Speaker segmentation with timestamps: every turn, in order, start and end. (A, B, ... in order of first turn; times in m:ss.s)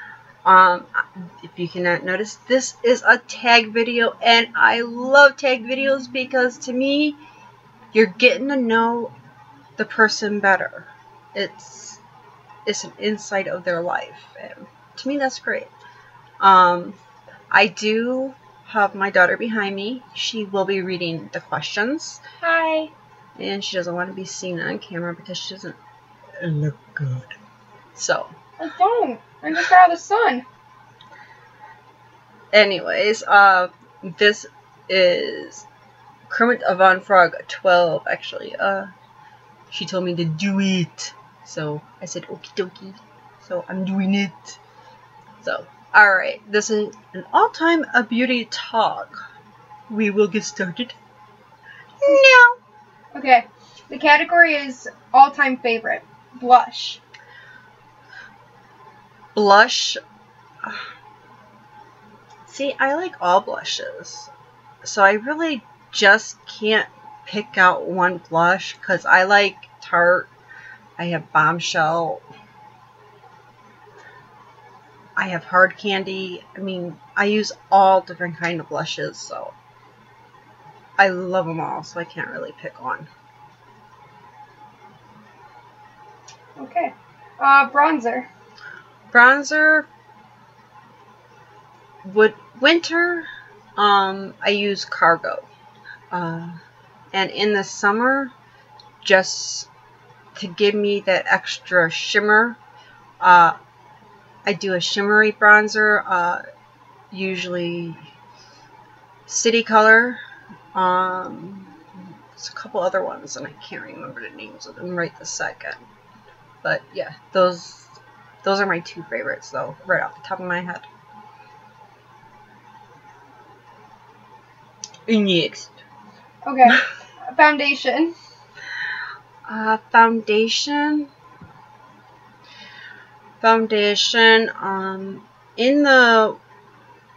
0:00.4-0:07.2 A
0:07.9-0:09.1 A
0:09.8-0:12.0 A
0:12.7-0:15.7 A
0:16.4-0:17.0 A
0:17.5-0:22.2 A
0:22.4-0:22.9 B
0:23.4-0:25.8 A
0:26.4-0:27.4 A
0:28.0-0:28.3 A
0:28.6-0:30.4 B
0:32.5-0:35.7 A
0:36.3-0:38.9 A
0:39.7-0:44.6 A
0:45.4-0:49.2 A
0:49.9-0:51.0 A
0:52.0-0:52.6 A
0:53.1-0:57.0 B
0:59.4-1:00.0 A
1:02.5-1:04.3 A
1:04.8-1:10.3 A
1:11.0-1:12.2 A
1:15.2-1:19.5 A
1:21.0-1:23.1 A
1:26.6-1:28.3 B
1:29.1-1:29.9 A
1:32.0-1:35.5 A
1:36.1-1:36.6 A
1:37.1-1:38.3 A
1:39.0-1:39.7 A
1:40.4-1:42.6 A
1:43.2-1:43.6 A
1:44.5-1:46.4 A
1:47.1-1:48.1 A
1:49.3-1:50.2 A
1:50.8-1:51.8 A
1:52.3-1:55.8 A
1:56.6-2:00.9 A
2:05.1-2:05.8 A
2:06.5-2:08.1 B
2:09.5-2:11.1 A
2:13.4-2:16.4 A